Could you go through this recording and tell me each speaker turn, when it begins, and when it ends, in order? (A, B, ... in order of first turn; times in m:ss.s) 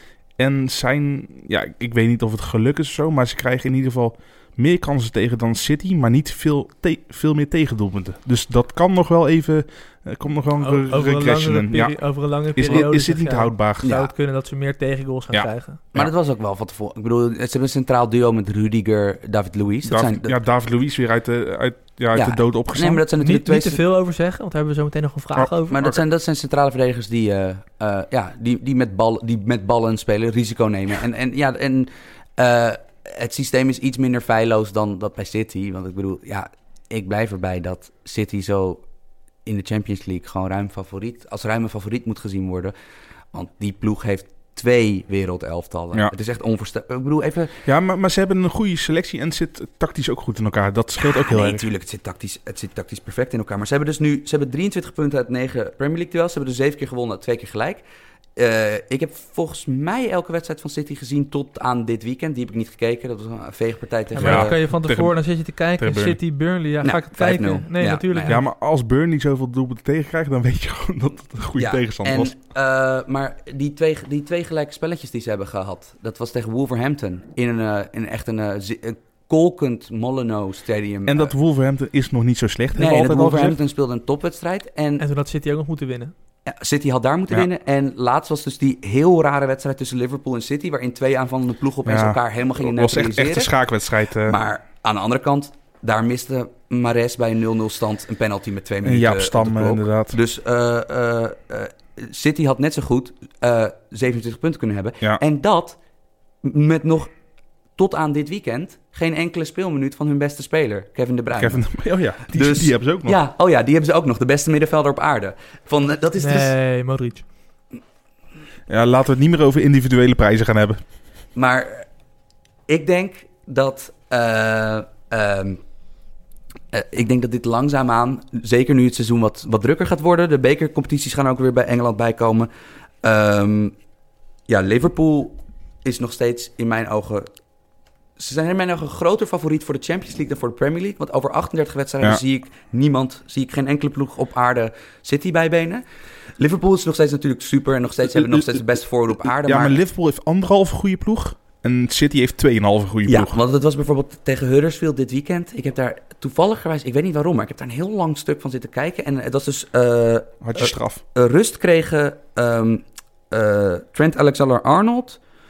0:00.4-0:12.0 A
0:10.6-0:15.8 B
0:12.5-0:14.0 A
0:13.8-0:14.1 C
0:15.3-0:16.1 A
0:15.9-0:20.4 C
0:19.9-0:23.0 A
0:22.1-0:23.8 C
0:23.2-0:25.8 B
0:25.4-0:26.0 A
0:25.7-0:38.8 C
0:39.4-0:42.7 C
0:43.3-0:47.6 C
0:47.7-0:51.7 A
0:51.0-0:57.8 C
0:58.4-1:04.6 C
1:04.2-1:08.4 B
1:04.2-1:05.2 A
1:05.8-1:06.2 A
1:06.8-1:08.4 C
1:08.3-1:12.3 A
1:11.6-1:21.3 C
1:21.1-1:23.6 A
1:22.8-1:25.0 C
1:25.0-1:26.1 B
1:26.5-1:33.5 C
1:31.8-1:34.4 A
1:34.3-1:45.8 C
1:38.8-1:40.2 A
1:46.4-1:47.1 C
1:47.8-1:51.7 C
1:51.4-1:53.2 A
1:52.3-1:56.5 C
1:56.2-1:57.3 B
1:58.7-2:00.8 A
2:01.4-2:01.9 C
2:02.7-2:05.6 C
2:06.7-2:12.5 C
2:13.0-2:13.8 C
2:14.5-2:17.3 C
2:18.2-2:25.8 C
2:26.4-2:29.8 C
2:28.2-2:28.5 A
2:29.4-2:33.4 A
2:33.1-2:45.2 C
2:40.4-2:41.0 A